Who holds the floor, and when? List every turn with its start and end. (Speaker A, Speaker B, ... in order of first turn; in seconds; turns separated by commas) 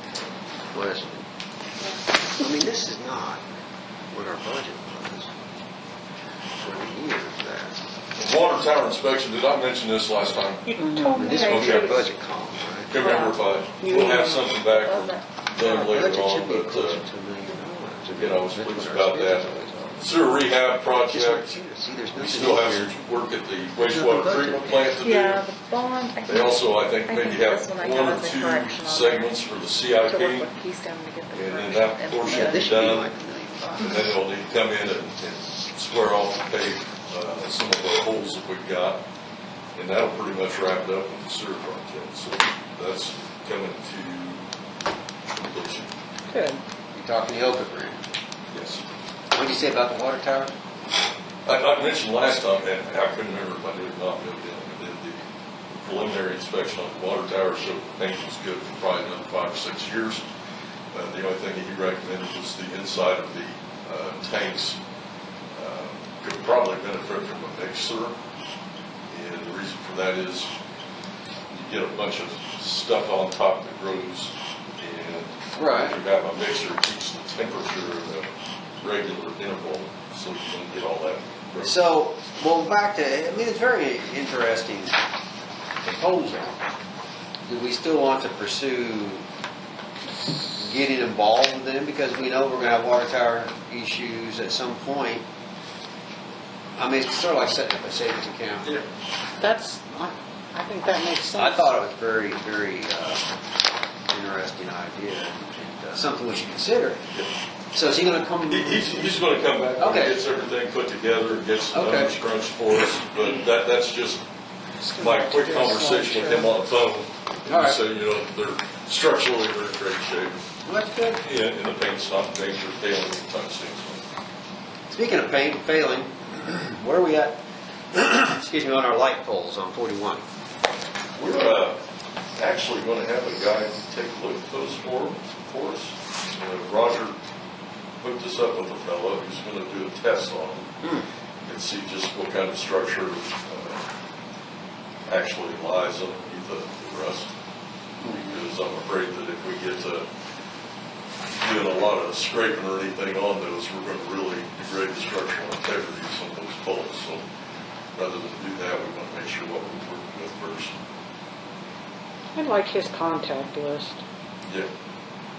Speaker A: 0.7-1.2, Speaker A: 2.3-3.4, Speaker A: 4.1-5.4, Speaker A: 6.6-7.8, Speaker B: 8.2-10.7, Speaker C: 10.7-11.9, Speaker A: 11.1-13.1, Speaker B: 11.3-11.9, Speaker B: 12.9-17.0, Speaker D: 13.0-13.4, Speaker C: 13.8-14.5, Speaker D: 14.6-15.3, Speaker A: 15.6-20.1, Speaker B: 18.2-21.6, Speaker A: 21.0-22.9, Speaker B: 22.1-25.5, Speaker A: 23.8-25.0, Speaker D: 25.0-29.3, Speaker B: 26.2-30.5, Speaker D: 30.1-32.8, Speaker B: 31.3-33.1, Speaker A: 32.3-34.0, Speaker B: 33.8-39.0, Speaker B: 39.8-44.4, Speaker B: 45.3-45.9, Speaker C: 46.3-46.6, Speaker A: 46.9-48.1, Speaker B: 48.5-48.8, Speaker A: 49.3-50.5, Speaker B: 51.4-60.2, Speaker B: 60.9-64.8, Speaker B: 65.5-68.2, Speaker B: 69.1-70.5, Speaker B: 71.5-78.3, Speaker A: 75.5-76.0, Speaker B: 78.8-81.8, Speaker A: 81.6-84.9, Speaker A: 85.8-86.6, Speaker A: 87.5-89.2, Speaker A: 90.5-95.2, Speaker A: 96.8-98.7, Speaker C: 99.4-101.7, Speaker A: 101.3-103.2, Speaker A: 104.1-107.0, Speaker A: 107.7-109.1, Speaker B: 108.5-114.2, Speaker A: 109.8-110.2, Speaker A: 111.7-112.1, Speaker C: 114.8-116.5, Speaker B: 115.0-120.4, Speaker A: 117.5-117.8, Speaker A: 120.6-121.2, Speaker B: 121.2-124.0, Speaker A: 124.9-127.4, Speaker A: 127.9-130.2, Speaker B: 131.2-131.8, Speaker B: 132.3-137.2, Speaker B: 138.0-140.8, Speaker B: 141.4-143.8, Speaker B: 145.1-147.3, Speaker A: 148.0-148.3, Speaker B: 148.0-150.1, Speaker B: 151.4-157.2, Speaker B: 157.9-160.7, Speaker C: 162.3-164.0